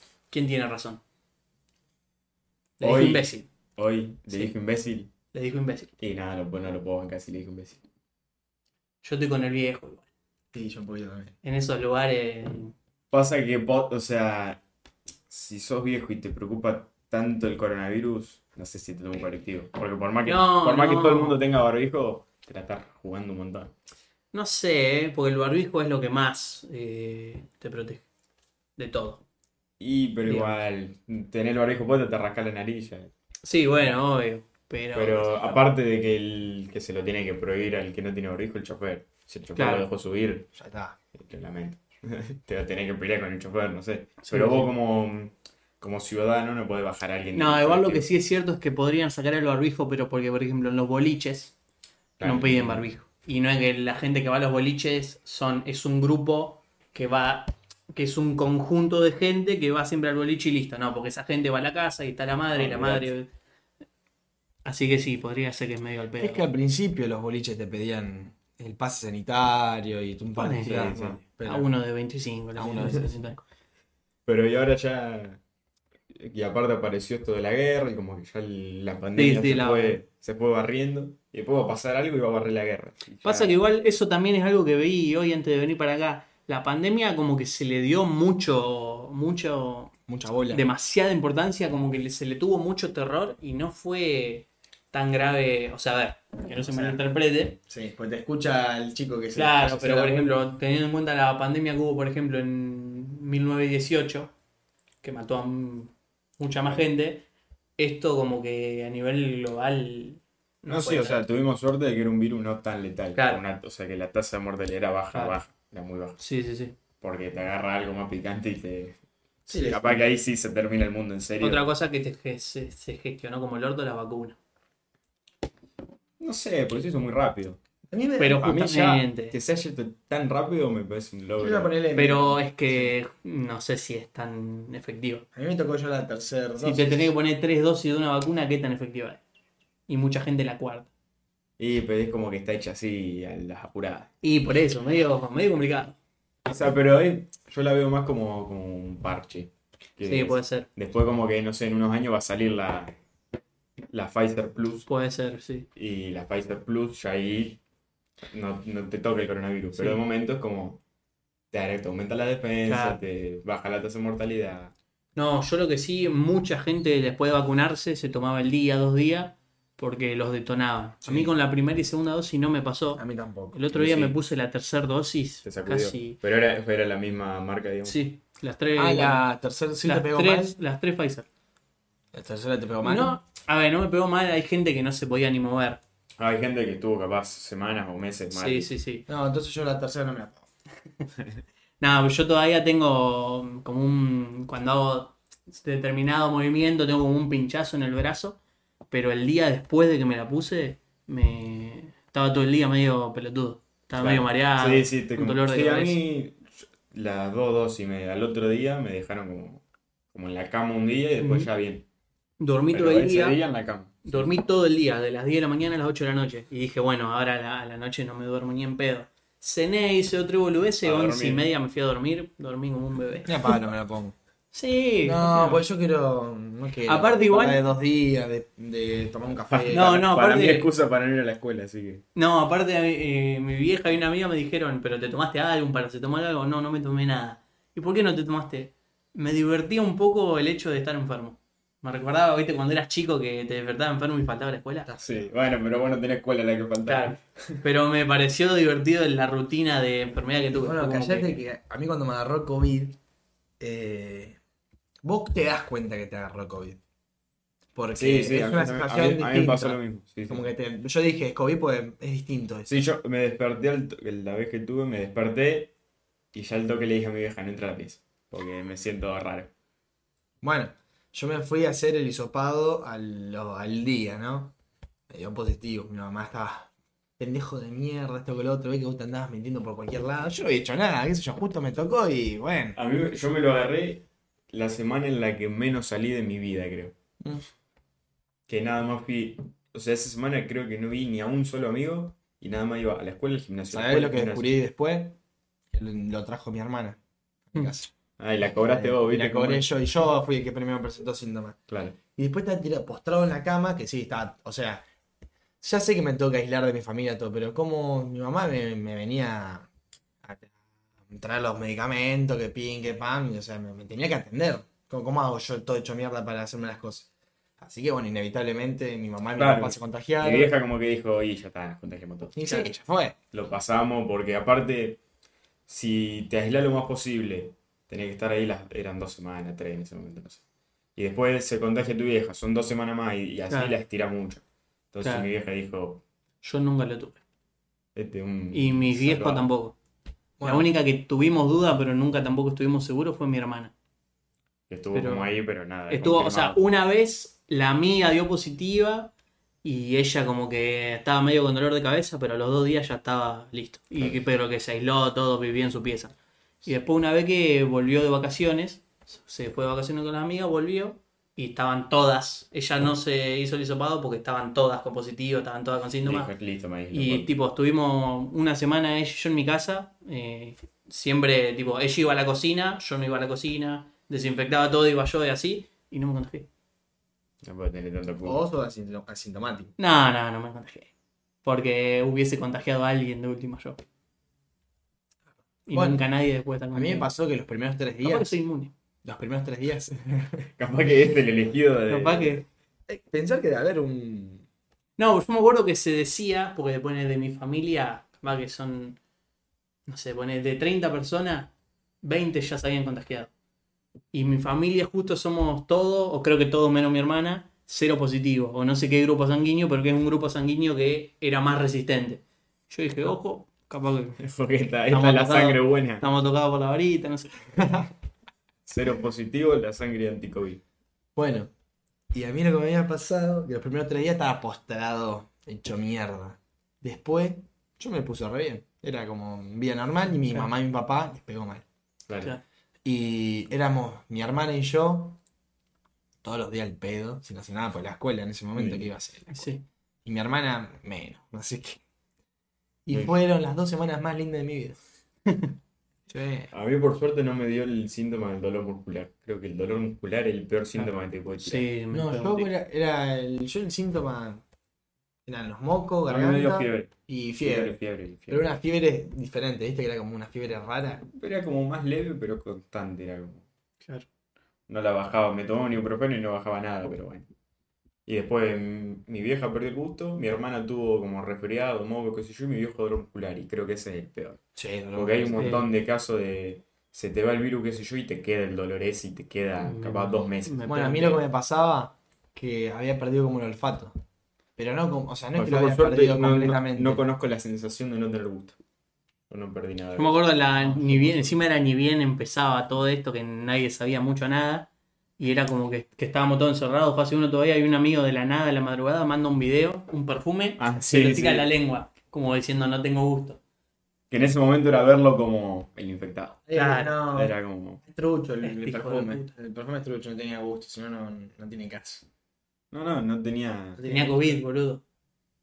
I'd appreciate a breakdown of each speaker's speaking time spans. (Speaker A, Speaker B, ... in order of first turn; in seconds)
Speaker A: 0.3-1.0, 2.8-3.5, 5.3-5.9, 9.0-10.1, 11.4-12.7, 20.2-21.4, 24.3-28.0, 28.8-29.2, 30.2-30.6, 33.4-35.6, 39.5-39.9, 44.2-44.7, 47.3-51.5, 52.2-63.3, 64.6-66.4, 70.4-73.4, 79.2-80.0, 83.2-89.9, 90.5-97.5, 99.3-104.3, 105.0-107.2, 107.8-111.2, 116.2-116.8, 121.4-124.3, 128.2-129.3, 131.9-135.2, 136.6-139.2, 139.9-140.9, 144.2-146.0, 150.1-150.7, 154.9-155.7, 162.7-163.0, 165.2-176.2, 177.8-179.2, 179.8-181.2, 182.8-185.8, 188.3-189.0, 191.8-198.4, 198.9-206.0, 211.2-211.5, 212.4-213.4, 214.0-223.6, 224.5-225.6, 226.8-227.6, 229.7-230.7, 232.1-244.9, 246.9-251.4, 333.5-333.8, 336.4-337.2, 338.5-339.7, 340.4-343.7, 344.9-345.3, 345.9-349.1, 349.6-366.3, 366.9-376.5, 379.8-380.9, 381.4-383.8, 385.7-387.1, 388.0-388.7, 391.9-392.4, 395.0-399.0, 399.9-401.5, 402.0-403.3, 404.1-414.2, 414.9-417.8, 439.3-439.6, 445.2-445.5, 451.4-452.5, 475.4-475.6, 479.6-481.2, 489.9-503.4, 506.5-507.0, 508.4-509.2, 513.8-514.8
Speaker B: 2.8-5.1, 6.0-7.8, 13.1-14.6, 15.3-23.7, 29.8-33.1, 34.9-40.5, 41.1-48.0, 52.2-52.9, 62.5-63.1, 70.7-71.2, 74.2-75.4, 76.1-83.5, 110.7-116.2, 117.0-121.7, 126.2-127.6, 128.4-131.7, 141.6-144.1, 146.4-153.0, 153.9-154.9, 155.7-157.6, 158.3-160.8, 161.5-164.7, 173.7-174.2, 175.4-178.0, 186.2-188.7, 204.0-209.6, 210.1-211.8, 212.7-214.3, 220.8-221.4, 229.5-232.0, 245.0-247.6, 257.9-260.4, 262.7-265.7, 266.3-269.5, 282.8-286.9, 288.5-294.5, 298.2-299.7, 301.7-302.0, 319.4-322.6, 323.3-325.0, 325.7-330.4, 330.9-336.0, 337.9-339.5, 344.7-346.6, 366.0-367.3, 377.4-378.4, 390.6-392.4, 414.2-416.1, 418.6-420.6, 432.1-432.4, 438.5-438.9, 446.5-451.6, 456.1-458.4, 461.1-463.4, 464.7-467.3, 468.1-474.4, 474.9-481.2, 485.3-488.6, 489.3-491.3, 500.6-501.5, 504.1-506.4, 507.1-507.8, 512.7-513.8
Speaker C: 10.5-11.3, 40.5-41.0, 66.2-71.7, 72.5-73.1, 90.1-90.6, 96.5-97.0, 97.7-100.4, 119.5-120.1, 127.9-128.5, 131.4-132.9, 135.3-137.1, 171.0-171.3, 172.9-173.6, 178.8-180.6, 182.1-183.2, 189.1-190.5, 223.3-224.2, 225.0-229.9, 244.8-245.2, 250.5-253.0, 253.6-254.4, 255.0-256.8, 257.7-262.7, 270.4-274.5, 275.1-282.8, 293.7-295.2, 295.7-297.9, 298.6-301.6, 302.1-304.8, 305.6-309.7, 310.2-310.5, 311.1-320.5, 322.4-323.1, 340.4-340.7, 378.2-379.7, 385.7-386.0, 386.7-388.3, 389.0-390.5, 392.9-394.4, 421.1-421.5, 422.1-431.6, 432.8-435.2, 436.2-439.5, 440.0-441.8, 442.9-444.8, 446.1-446.5, 451.9-454.4, 455.2-461.0, 474.5-475.6, 480.6-483.9, 484.6-487.0, 506.5-507.3, 507.9-512.0, 513.8-514.4